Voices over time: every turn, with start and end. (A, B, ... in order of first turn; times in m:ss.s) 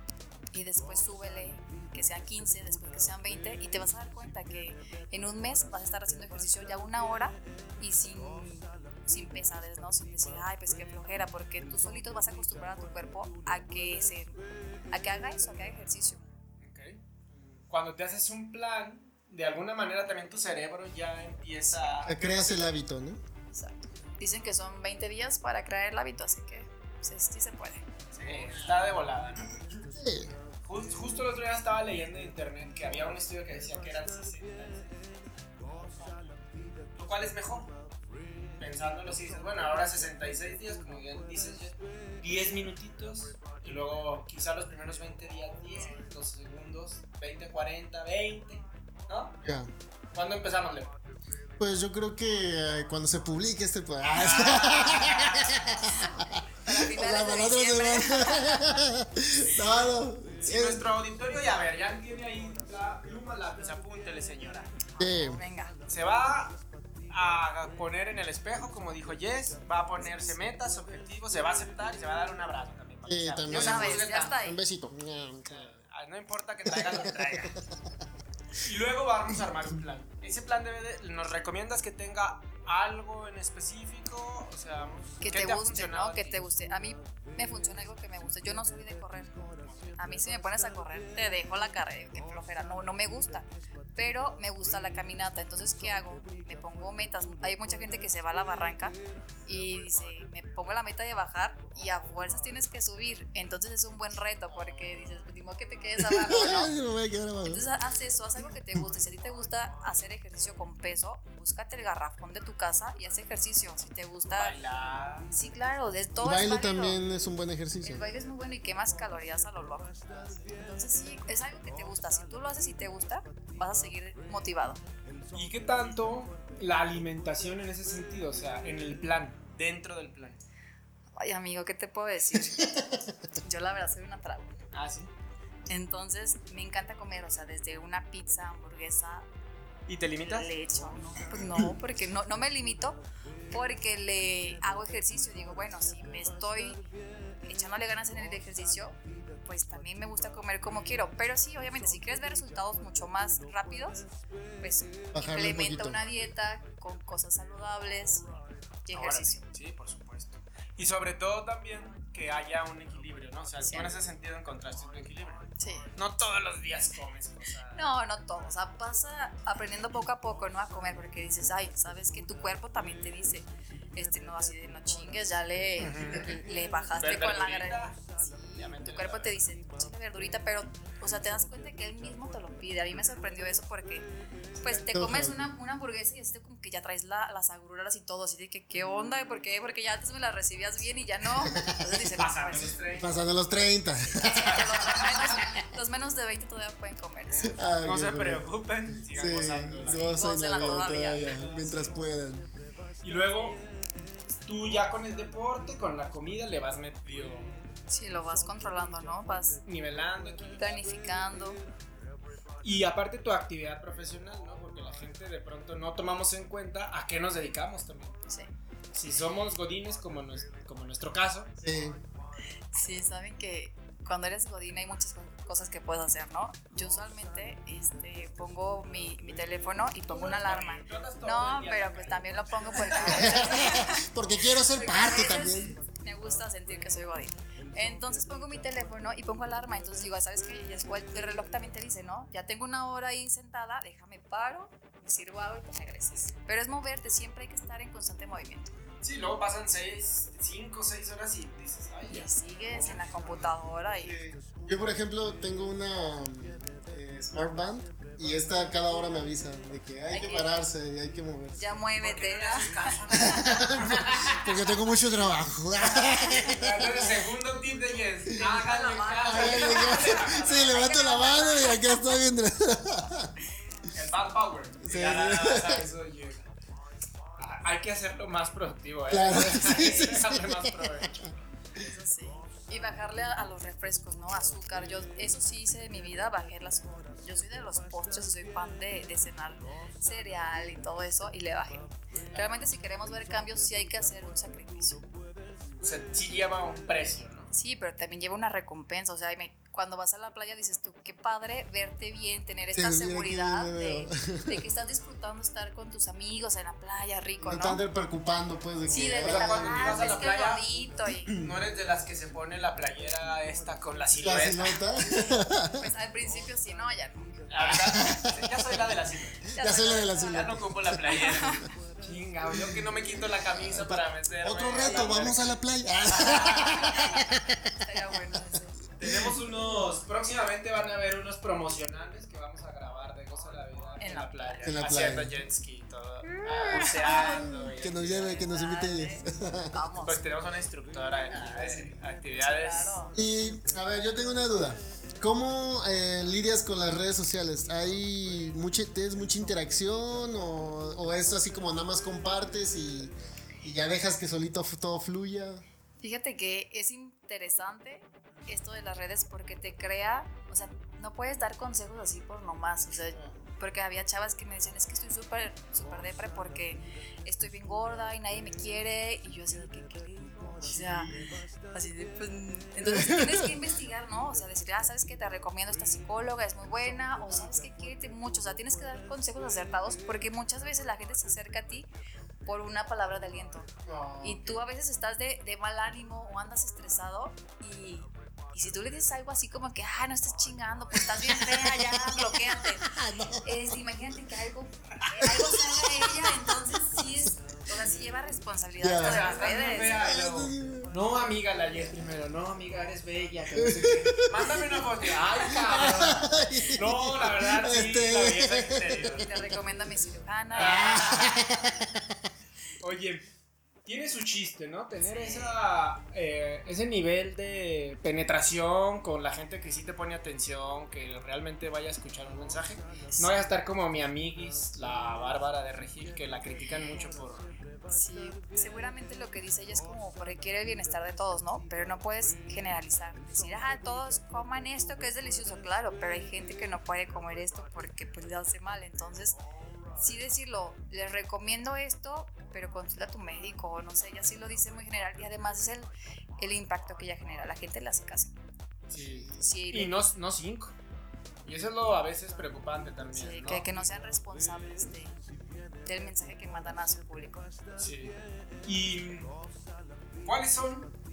0:00.5-0:14.4 A
0:14.9-0:16.2 A
0:16.6-0:22.8 B
0:21.7-0:22.1 A
0:22.1-0:23.2 C
0:23.5-0:27.9 A
0:28.1-0:29.6 B
0:29.9-0:30.3 C
0:30.6-0:36.4 B
0:37.0-0:37.7 B
0:38.6-0:49.4 B
0:49.4-0:49.7 C
0:50.1-0:50.9 B
0:51.6-1:00.8 C
0:54.2-0:55.6 B
0:56.6-0:58.8 A
0:59.4-0:59.9 B
1:00.4-1:04.7 B
1:05.0-1:05.8 A
1:05.0-1:05.4 C
1:05.9-1:06.6 B
1:07.1-1:14.4 B
1:13.1-1:15.7 C
1:13.5-1:14.6 A
1:15.4-1:17.6 B
1:16.7-1:17.6 C
1:18.6-1:26.4 B
1:25.2-1:29.3 A
1:29.6-1:30.0 B
1:30.0-1:46.7 A
1:46.0-1:47.6 C
1:47.4-1:54.6 A
1:54.4-1:55.3 B
1:55.3-1:57.0 A
1:56.2-1:58.0 C
1:57.8-2:04.8 A
2:05.3-2:10.4 B
2:11.1-2:12.7 A
2:12.6-2:13.0 C
2:13.4-2:14.6 A
2:14.7-2:15.1 B
2:15.7-2:19.3 A
2:19.9-2:20.5 B
2:20.2-2:26.8 A
2:27.4-2:34.1 A
2:34.6-2:38.3 A
2:35.1-2:36.0 C
2:38.8-2:39.4 A
2:38.9-2:47.8 B
2:43.6-2:43.9 A
2:45.6-2:45.9 A
2:47.7-3:04.1 A
2:55.8-2:56.4 B
2:57.0-2:58.0 B
2:58.6-2:59.4 B
3:04.6-3:12.8 A
3:04.9-3:05.5 C
3:12.2-3:13.4 B
3:13.0-3:14.7 C
3:14.1-3:17.6 A
3:14.6-3:15.0 B
3:17.4-3:18.5 C
3:17.8-3:22.0 B
3:19.1-3:22.5 C
3:20.1-3:21.4 A
3:23.0-3:23.6 B
3:24.4-3:27.5 B
3:27.9-3:29.6 A
3:29.7-3:30.8 B
3:30.6-3:31.6 A
3:32.6-3:38.2 B
3:38.9-3:41.5 B
3:41.6-3:42.0 C
3:42.7-3:54.1 A
3:50.1-3:53.7 B
3:53.2-3:55.8 C
3:54.7-4:08.7 A
4:09.0-4:13.5 B
4:12.1-4:14.2 A
4:14.0-4:21.6 C
4:20.1-4:20.6 A
4:21.6-4:23.6 A
4:22.0-4:24.6 B
4:23.1-4:27.3 C
4:25.8-4:31.0 B
4:28.3-4:32.0 A
4:29.2-4:33.3 C
4:33.9-4:36.5 B
4:34.8-4:35.8 C
4:37.4-4:41.4 B
4:39.1-4:41.2 C
4:41.8-4:55.0 A
4:55.8-4:57.5 B
4:57.5-5:07.8 A
5:02.7-5:04.6 C
5:07.4-5:10.2 C
5:08.9-5:11.3 A
5:08.9-5:10.7 B
5:11.4-5:14.8 B
5:14.2-5:15.9 C
5:15.7-5:17.4 A
5:17.5-5:19.5 B
5:17.6-5:18.5 C
5:19.5-5:20.5 A
5:19.6-5:21.7 C
5:20.2-5:25.5 B
5:21.1-5:21.6 A
5:22.5-5:22.9 C
5:23.4-5:27.6 C
5:24.8-5:25.3 A
5:26.1-5:27.2 B
5:26.9-5:27.1 A
5:27.8-5:28.8 A
5:29.0-5:38.4 B
5:29.0-5:29.4 C
5:34.0-5:34.8 A
5:34.6-5:35.3 C
5:36.6-5:39.8 C
5:36.8-5:37.3 A
5:38.2-5:40.2 A
5:40.0-5:43.0 B
5:42.4-5:43.2 A
5:43.1-5:55.6 C
5:56.0-6:11.1 A
6:11.7-6:21.9 A
6:12.8-6:13.6 C
6:22.5-6:40.0 A
6:23.9-6:24.4 C
6:31.8-6:33.5 C
6:35.8-6:36.1 C
6:38.8-6:40.9 C
6:39.0-6:49.3 B
6:43.6-6:49.2 C
6:49.2-6:51.3 A
6:50.5-6:51.4 B
6:50.6-6:52.1 C
6:52.8-6:53.2 B
6:53.8-7:07.5 B
6:55.0-6:55.6 A
7:07.9-7:19.4 A
7:20.0-7:28.3 A
7:28.9-7:30.7 B
7:29.4-7:29.9 A
7:31.4-7:33.7 B
7:33.1-7:35.2 A
7:35.9-7:37.5 A
7:37.8-7:39.3 B
7:40.2-7:40.9 B